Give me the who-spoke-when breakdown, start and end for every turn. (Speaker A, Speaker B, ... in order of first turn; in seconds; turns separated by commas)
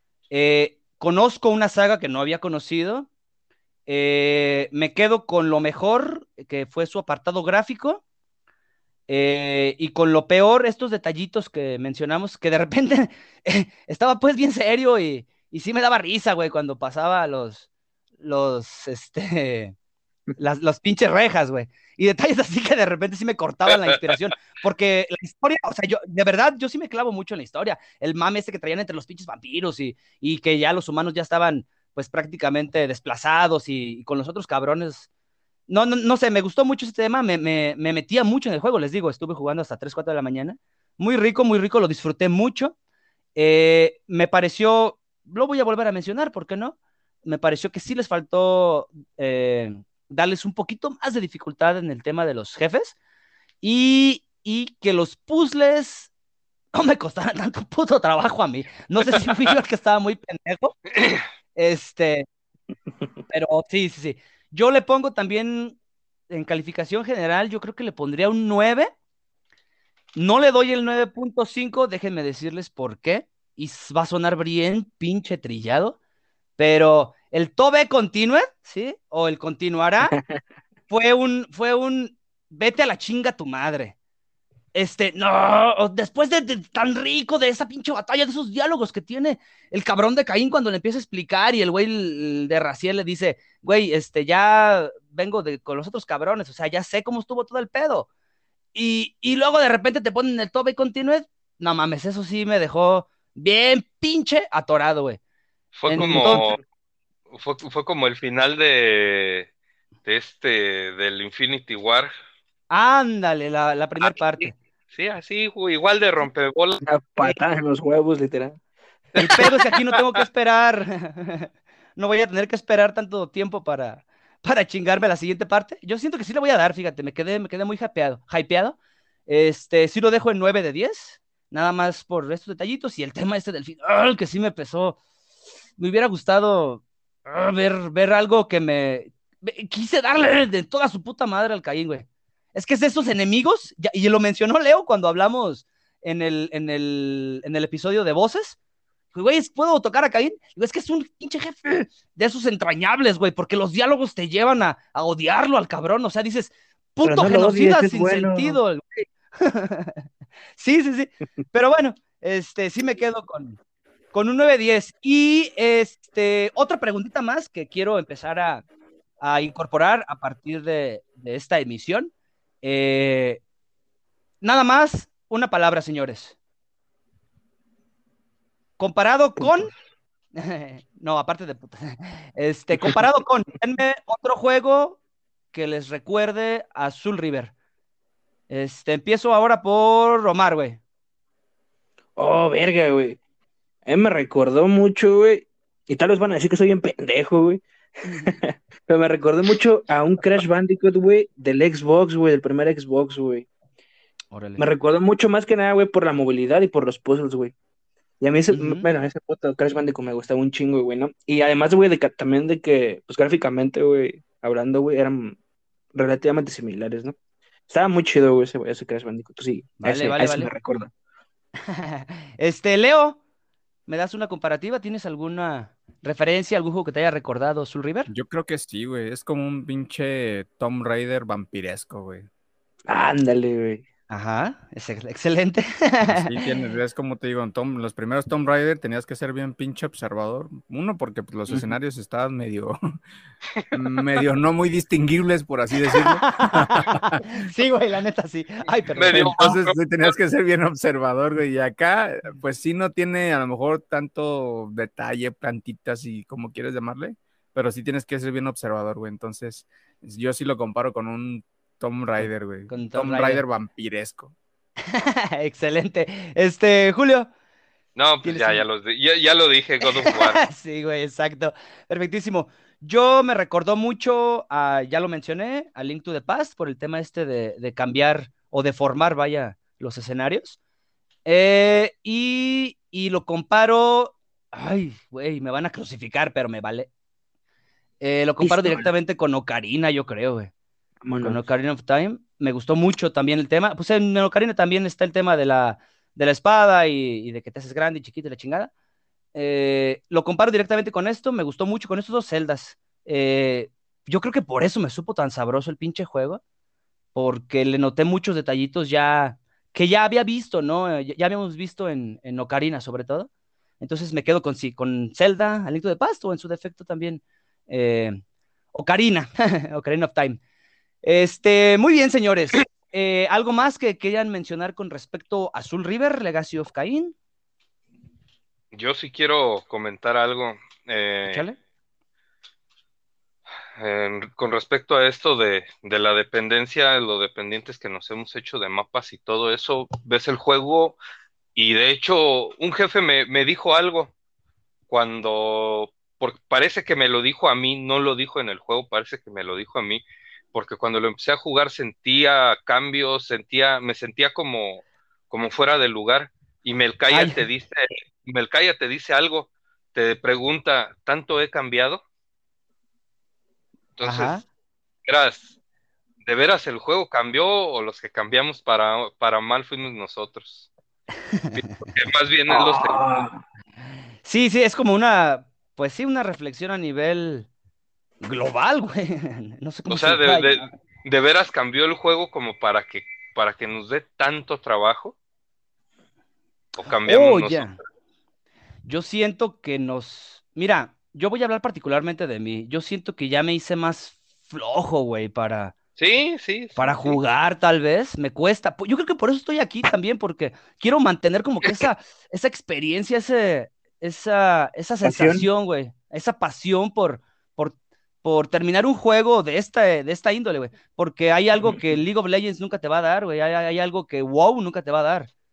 Speaker A: 0.3-3.1, Speaker A: 3.9-8.0, Speaker A: 9.1-17.7, Speaker A: 18.2-19.7, Speaker A: 20.4-35.1, Speaker A: 35.7-42.7, Speaker A: 43.3-53.0, Speaker A: 53.6-56.1, Speaker A: 56.7-60.8, Speaker B: 61.0-61.2, Speaker A: 61.5-62.3, Speaker A: 63.3-65.8, Speaker A: 66.3-68.9, Speaker A: 70.1-76.0, Speaker A: 76.6-80.1, Speaker C: 80.1-80.4, Speaker A: 80.9-84.0, Speaker A: 84.7-98.1, Speaker A: 98.7-105.2, Speaker B: 105.7-106.6, Speaker A: 105.9-106.5, Speaker C: 106.0-106.5, Speaker B: 107.3-109.5, Speaker B: 110.0-112.1, Speaker A: 112.7-114.5, Speaker B: 114.1-116.8, Speaker C: 116.8-118.6, Speaker C: 119.2-119.6, Speaker A: 119.2-135.0, Speaker A: 135.8-148.6, Speaker A: 149.1-160.0, Speaker C: 157.0-158.6, Speaker A: 160.6-163.6, Speaker A: 164.1-168.6, Speaker A: 169.2-173.4, Speaker A: 174.4-176.3, Speaker A: 178.8-179.7, Speaker A: 180.3-185.0, Speaker A: 185.5-187.5, Speaker A: 188.5-190.8, Speaker C: 192.2-193.2, Speaker C: 193.8-203.4, Speaker A: 204.3-204.6, Speaker C: 204.6-207.5, Speaker C: 208.2-215.3, Speaker A: 208.5-208.8, Speaker C: 215.9-217.2, Speaker C: 217.7-220.9, Speaker A: 219.8-220.5, Speaker A: 221.7-223.2, Speaker A: 223.9-228.1, Speaker D: 228.1-232.3, Speaker C: 232.9-233.8, Speaker A: 234.1-236.3, Speaker D: 236.1-243.0, Speaker D: 243.7-247.2, Speaker A: 245.9-249.3, Speaker B: 249.0-249.8, Speaker D: 249.1-264.3, Speaker A: 262.2-263.4, Speaker A: 264.9-267.3, Speaker B: 267.9-270.4, Speaker A: 268.2-268.6, Speaker A: 269.8-280.6, Speaker A: 281.2-286.9, Speaker A: 288.0-290.5, Speaker C: 288.4-288.9, Speaker C: 291.0-291.4, Speaker A: 291.2-298.7, Speaker A: 299.3-306.4, Speaker A: 307.1-313.3, Speaker A: 313.8-318.2, Speaker A: 318.7-320.4, Speaker A: 321.0-327.1, Speaker B: 328.7-331.4, Speaker A: 331.3-331.6, Speaker B: 333.8-341.0, Speaker B: 341.5-344.1, Speaker B: 344.9-350.0, Speaker B: 350.5-362.0, Speaker A: 357.1-357.4, Speaker B: 364.0-364.4, Speaker A: 364.0-364.4, Speaker B: 365.1-365.5, Speaker B: 366.2-370.7, Speaker A: 371.4-371.7, Speaker B: 371.5-373.0, Speaker C: 372.5-373.4, Speaker A: 374.2-377.5, Speaker A: 378.2-380.7, Speaker B: 379.9-385.1, Speaker B: 386.8-387.8, Speaker A: 387.0-387.8, Speaker A: 388.8-395.7, Speaker B: 396.0-397.2, Speaker A: 396.8-415.3, Speaker C: 405.0-405.5